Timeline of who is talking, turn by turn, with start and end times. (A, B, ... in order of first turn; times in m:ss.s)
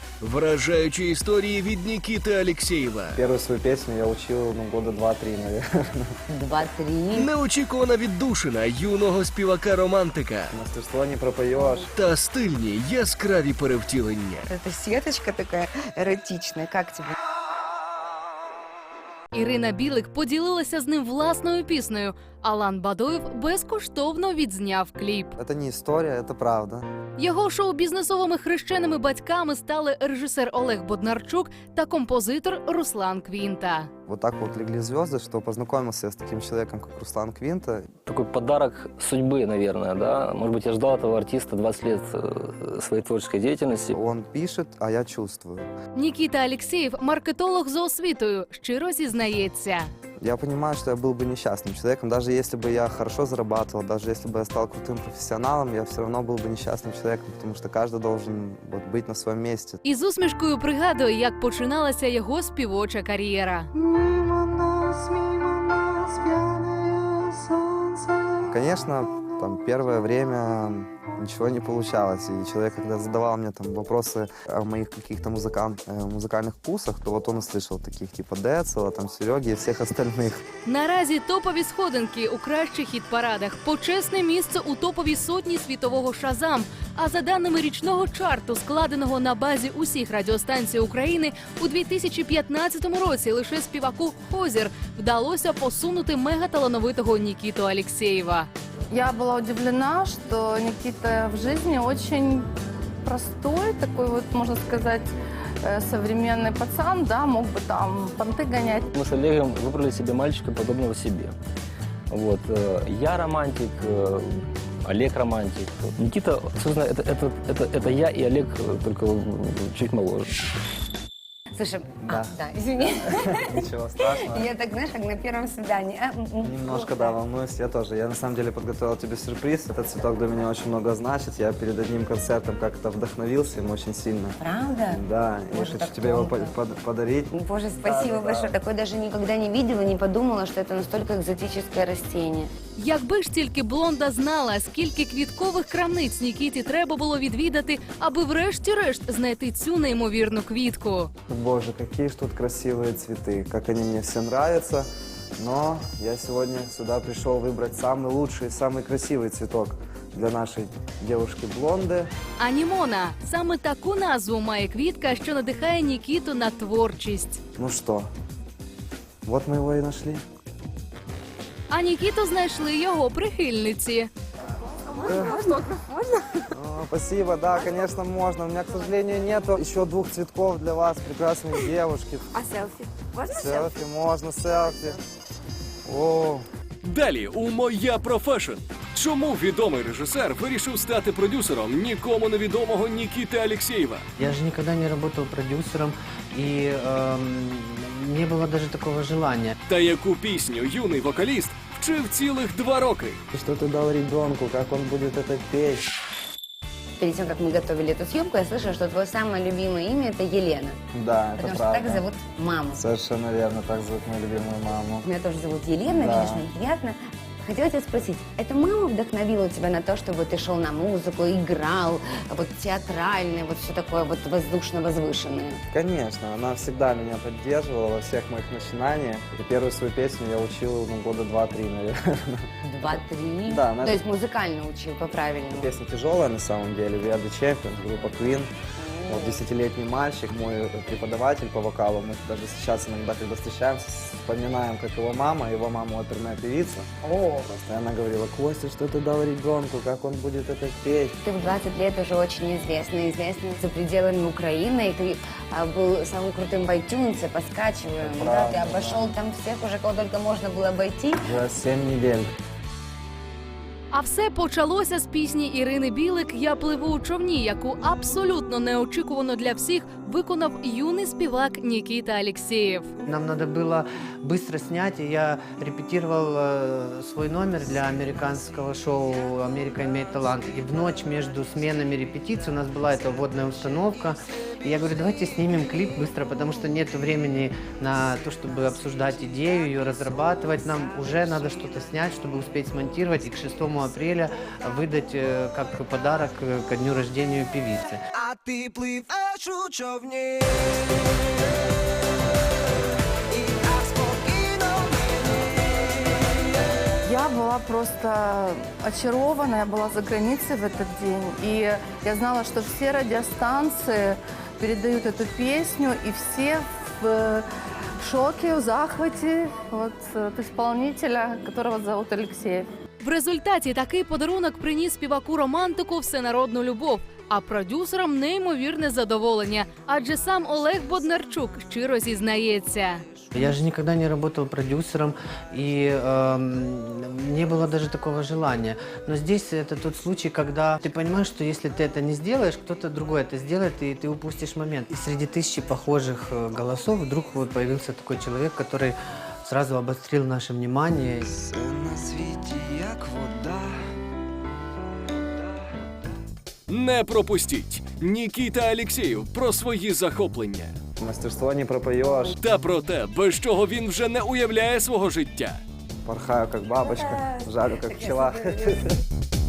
0:00.2-0:03.2 A
0:03.1-0:06.1 B
0:06.3-0:07.3 C
0:07.1-0:10.5 A
0:10.5-0:11.9 B
0:11.6-0:11.8 C
0:11.9-0:14.5 A
0:14.5-0:17.1 C
0:19.3-0:25.3 D
0:25.4-0:26.8 B
0:27.2-0:33.9 D
0:34.0-0:37.9 B
0:38.1-0:44.0 E
0:43.9-0:45.7 B
0:45.9-0:49.9 D
0:50.2-0:59.8 B
0:59.8-1:03.7 D
1:03.8-1:20.4 B
1:20.6-1:38.5 D
1:38.9-1:42.5 F
1:43.0-1:45.1 F
1:45.6-1:48.9 F
1:48.9-1:51.3 E
1:52.1-2:00.3 E
2:01.5-2:03.5 C
2:03.0-2:04.4 B
2:04.2-2:07.2 C
2:06.4-2:17.3 B
2:14.4-2:16.6 C
2:17.3-2:22.5 C
2:17.8-2:18.5 B
2:22.8-2:31.1 D
2:31.3-2:42.1 B
2:42.4-2:47.4 D
2:47.6-2:48.0 B
2:49.2-2:50.2 B
2:51.7-2:54.1 D
2:54.7-2:56.4 C
2:56.5-3:02.3 B
3:02.3-3:03.8 C
3:03.3-3:05.0 B
3:05.8-3:06.4 B
3:06.8-3:14.0 A
3:14.2-3:19.5 G
3:19.7-3:23.2 A
3:23.3-3:25.8 B
3:27.0-3:30.8 C
3:30.9-3:32.0 B
3:31.4-3:32.8 C
3:32.7-3:35.0 B
3:35.0-3:45.6 C
3:35.9-3:36.4 B
3:45.7-3:52.5 B
3:52.6-3:55.7 C
3:53.5-3:54.0 B
3:55.5-3:58.5 B
3:58.8-3:59.4 C
3:59.1-4:06.9 B
4:07.0-4:07.5 C
4:07.4-4:11.2 B
4:11.2-4:21.2 C
4:18.0-4:19.1 B
4:21.2-4:22.3 B
4:23.9-4:32.9 D
4:33.0-4:58.0 G
4:58.2-5:00.8 H
5:03.3-5:05.1 H
5:07.1-5:17.4 F
5:18.0-5:22.6 F
5:23.0-5:33.0 D
5:33.3-5:51.2 G
5:51.2-5:53.8 B
5:56.7-6:00.8 A
6:01.0-6:02.4 B
6:02.4-6:05.6 A
6:06.0-6:09.0 B